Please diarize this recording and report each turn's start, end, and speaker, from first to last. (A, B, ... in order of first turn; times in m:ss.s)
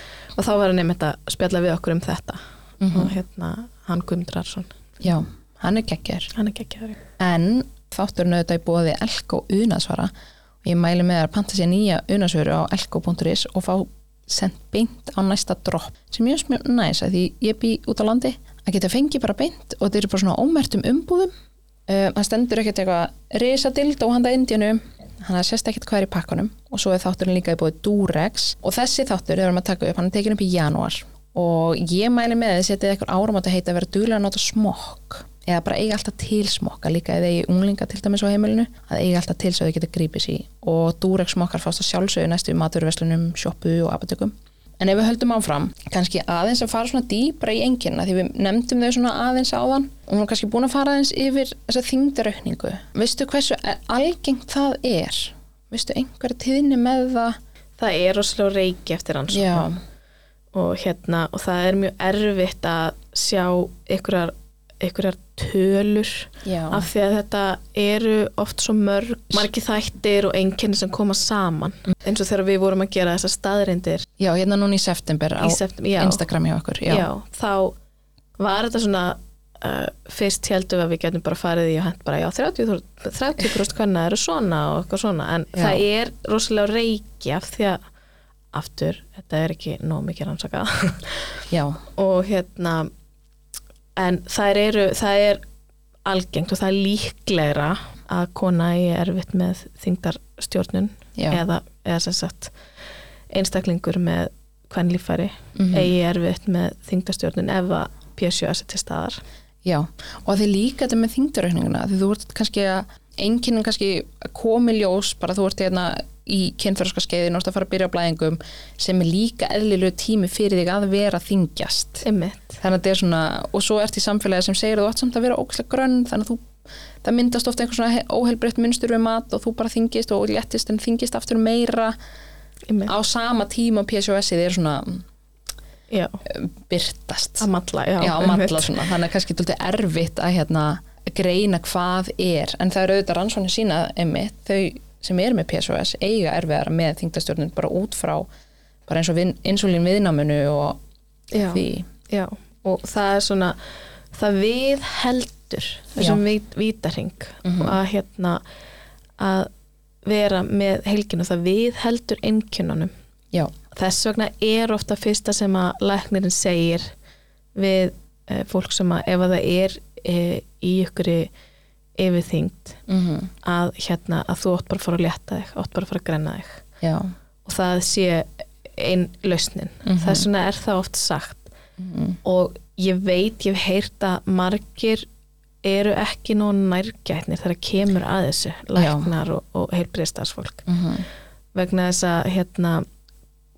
0:00.4-0:04.7 A
0:02.8-0:03.1 B
0:05.0-0:06.3 B
0:06.3-0:07.0 A
0:07.2-0:10.1 B
0:10.6-0:21.3 B
0:21.9-0:57.4 B
0:57.8-0:59.7 A
0:59.3-0:59.8 B
1:00.5-1:14.1 A
1:06.4-1:06.9 B
1:14.2-1:17.1 B
1:15.4-1:16.2 A
1:16.9-1:17.8 A
1:18.4-1:27.8 A
1:25.6-1:25.8 B
1:28.5-1:31.4 A
1:31.5-1:31.8 B
1:32.0-1:32.9 A
1:34.0-1:35.4 A
1:36.1-1:42.5 A
1:43.3-1:49.2 A
1:45.6-1:45.9 B
1:49.6-2:02.0 B
2:02.0-2:02.6 A
2:02.6-2:06.5 B
2:07.0-2:12.0 B
2:12.9-2:15.0 B
2:15.9-2:16.2 A
2:16.3-2:17.5 B
2:17.4-2:18.8 A
2:18.0-2:28.3 B
2:28.9-2:30.8 B
2:31.3-2:33.6 A
2:31.4-2:31.9 B
2:34.1-2:38.4 A
2:37.4-2:37.8 B
2:39.2-2:39.5 A
2:40.0-2:42.9 A
2:43.7-2:46.9 A
2:47.6-2:51.3 A
2:52.0-2:52.8 A
2:52.9-2:53.3 B
2:53.4-2:56.6 A
2:56.8-2:57.1 B
2:57.4-3:01.5 A
2:59.8-3:00.3 B
3:01.8-3:02.2 B
3:02.2-3:05.1 A
3:05.6-3:10.7 A
3:08.8-3:09.1 B
3:10.7-3:11.1 B
3:11.6-3:12.9 A